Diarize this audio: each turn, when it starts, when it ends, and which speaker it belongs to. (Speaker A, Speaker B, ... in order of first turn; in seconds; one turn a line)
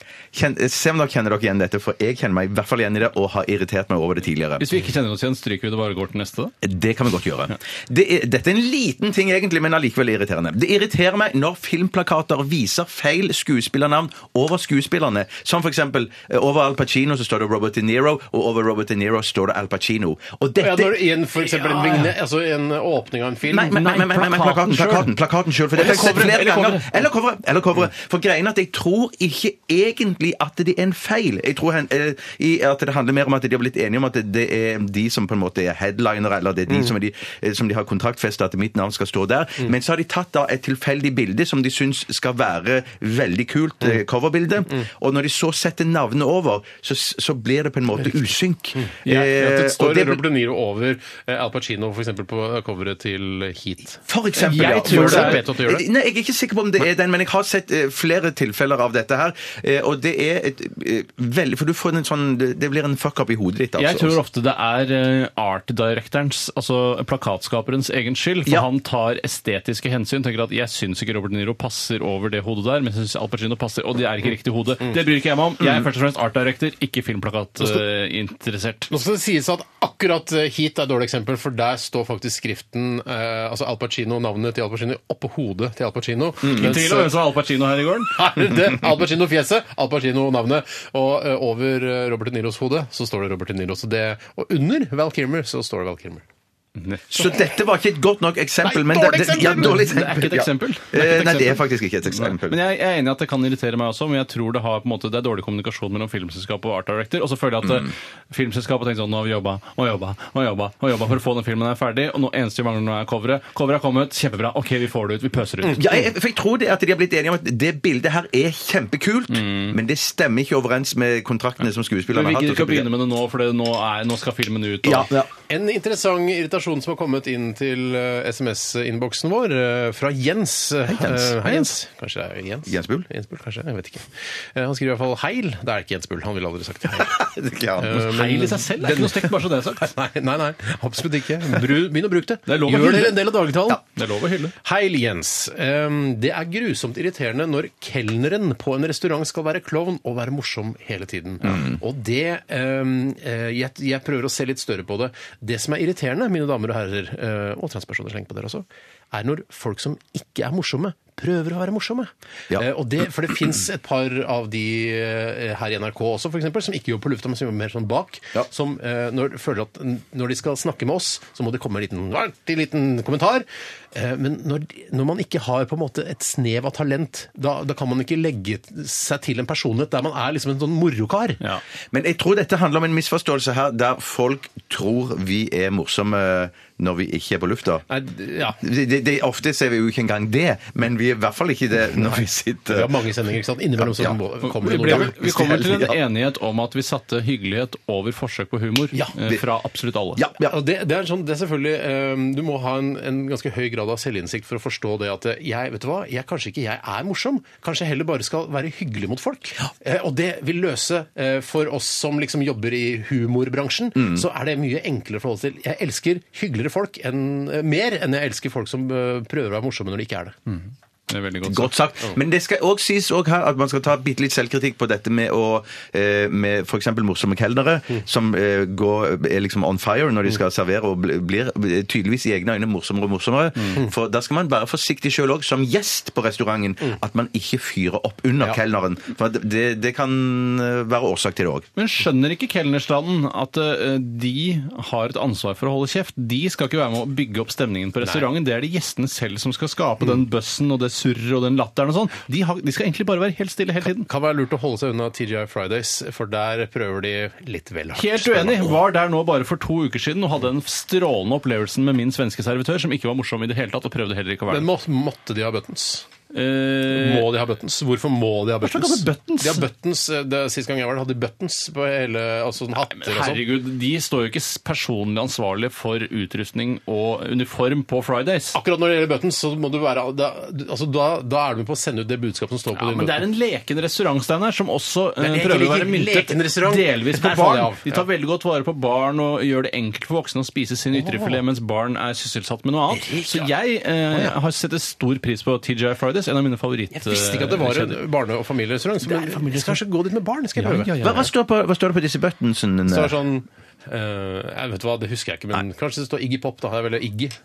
Speaker A: 0.3-4.7
Speaker B: 4.6-6.5
Speaker A: 6.6-21.5
Speaker C: 20.6-23.8
Speaker A: 23.5-50.2
Speaker B: 23.7-25.1
Speaker B: 25.7-27.0
Speaker C: 48.8-55.9
Speaker A: 54.1-64.2
Speaker B: 54.4-55.5
Speaker B: 63.8-78.9
Speaker C: 78.9-87.1
Speaker B: 86.4-88.3
Speaker C: 88.1-96.2
Speaker B: 96.8-97.2
Speaker A: 97.1-102.6
Speaker C: 98.6-99.9
Speaker B: 99.3-115.9
Speaker A: 115.7-122.9
Speaker B: 119.3-119.8
Speaker B: 122.1-125.1
Speaker A: 124.8-125.3
Speaker C: 125.5-137.2
Speaker A: 130.9-131.6
Speaker A: 132.7-133.1
Speaker A: 137.0-137.9
Speaker C: 137.8-143.8
Speaker B: 137.9-139.9
Speaker B: 142.5-144.5
Speaker C: 144.6-181.4
Speaker A: 181.9-187.8
Speaker C: 187.9-188.6
Speaker A: 188.6-192.9
Speaker C: 192.7-195.6
Speaker A: 193.8-196.0
Speaker B: 194.5-200.2
Speaker A: 199.1-199.4
Speaker A: 200.2-200.6
Speaker C: 200.4-220.4
Speaker A: 214.0-214.2
Speaker B: 221.1-221.7
Speaker A: 221.4-241.7
Speaker B: 241.8-254.1
Speaker C: 254.0-258.8
Speaker B: 257.9-264.7
Speaker C: 264.5-266.1
Speaker B: 266.3-267.3
Speaker C: 266.9-273.4
Speaker B: 268.6-269.6
Speaker B: 272.8-278.6
Speaker C: 278.5-283.2
Speaker B: 282.7-298.0
Speaker C: 285.2-288.1
Speaker C: 290.9-291.4
Speaker C: 292.9-293.5
Speaker C: 296.9-300.9
Speaker B: 299.1-299.8
Speaker B: 300.6-301.3
Speaker A: 301.0-303.1
Speaker C: 302.9-307.4